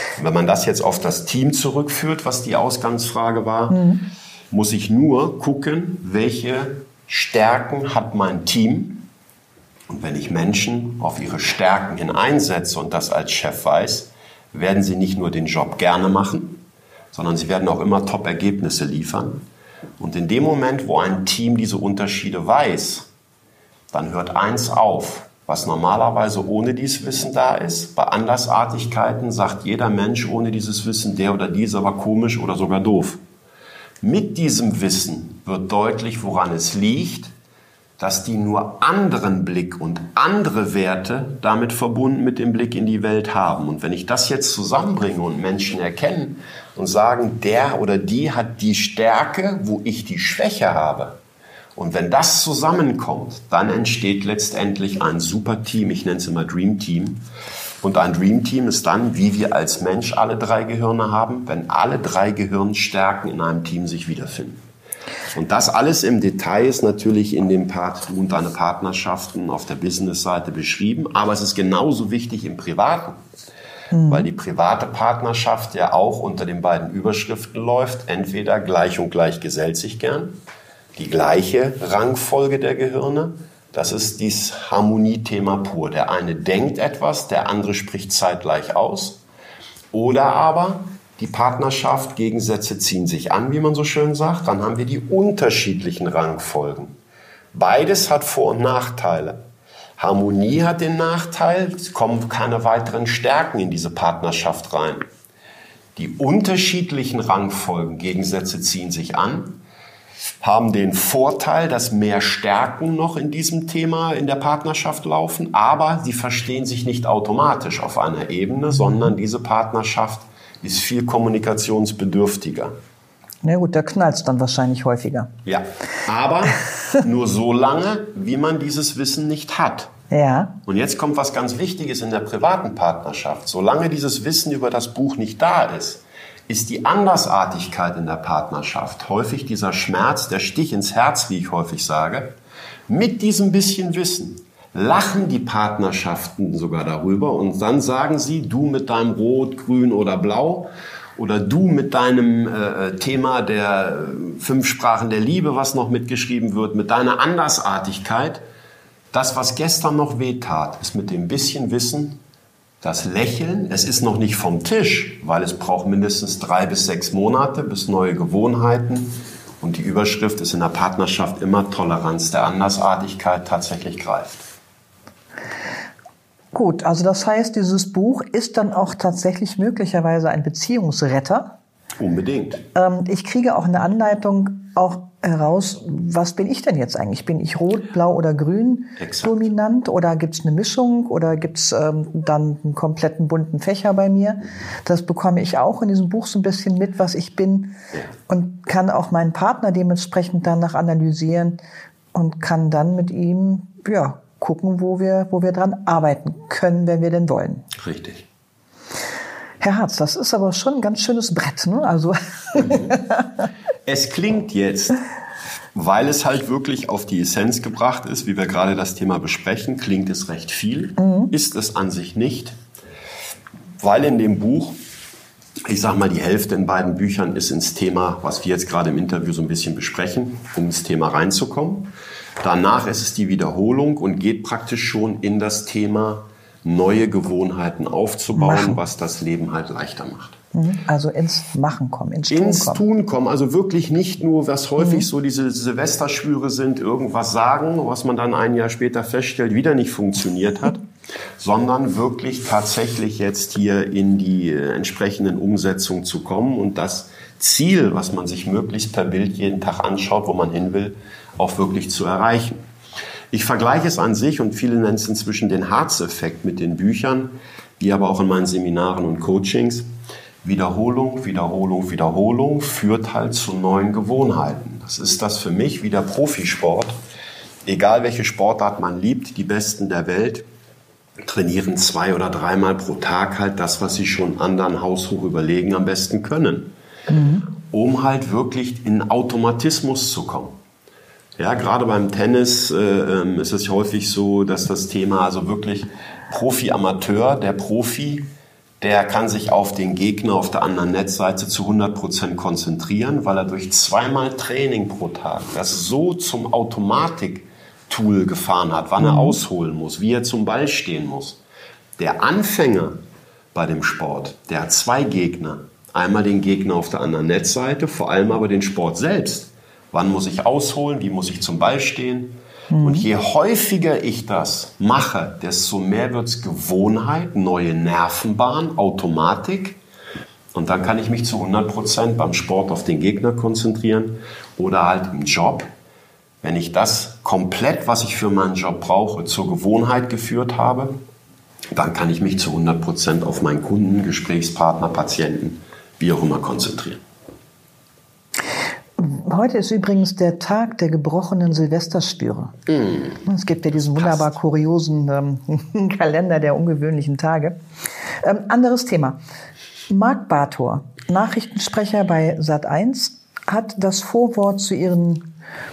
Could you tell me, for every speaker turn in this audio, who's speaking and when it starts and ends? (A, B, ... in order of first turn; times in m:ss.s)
0:00.2-0:03.8 A
0:03.7-0:04.0 B
0:04.5-0:09.1 A
0:09.9-0:16.6 A
0:17.1-0:19.4 A
0:20.0-0:23.1 A
0:23.9-0:33.2 A
0:34.0-0:37.3 A
0:38.0-0:51.2 A
0:51.8-0:57.2 A
0:57.8-1:04.6 A
1:05.3-1:13.2 A
1:13.9-1:14.3 B
1:14.1-1:20.4 A
1:21.0-1:29.2 A
1:29.9-1:37.0 A
1:37.5-1:39.4 A
1:40.0-1:45.0 A
1:46.0-1:49.6 A
1:50.4-2:02.7 A
2:03.4-2:05.3 B
2:05.4-2:09.9 A
2:10.1-2:10.5 B
2:10.6-2:22.3 A
2:22.9-2:38.4 A
2:39.1-2:42.2 A
2:42.8-2:54.4 A
2:56.5-3:01.5 B
3:02.0-3:02.6 A
3:02.7-3:17.8 B
3:09.0-3:09.5 A
3:18.3-3:21.6 B
3:22.1-3:27.7 B
3:27.7-3:28.2 A
3:29.6-3:33.2 B
3:32.6-3:33.0 A
3:33.8-3:35.0 A
3:35.7-3:42.6 A
3:41.0-3:41.3 B
3:43.8-3:44.8 A
3:45.6-4:00.4 A
3:58.4-3:58.8 B
4:00.5-4:02.8 B
4:02.3-4:10.8 A
4:04.8-4:05.0 B
4:11.4-4:22.6 A
4:23.3-4:29.9 A
4:30.4-4:37.0 A
4:37.6-4:40.4 A
4:41.2-4:46.7 A
4:47.1-4:47.5 B
4:47.7-4:50.6 A
4:51.4-4:58.3 A
4:58.8-5:11.4 A
5:09.0-5:09.4 B
5:12.0-5:13.0 A
5:13.5-5:29.8 A
5:22.7-5:23.0 B
5:30.5-5:35.7 A
5:36.4-5:41.0 A
5:41.7-5:47.0 A
5:49.0-5:52.6 B
5:52.7-5:53.2 A
5:53.2-5:57.5 B
5:54.0-5:54.3 A
5:58.2-5:59.2 B
5:59.9-6:05.3 B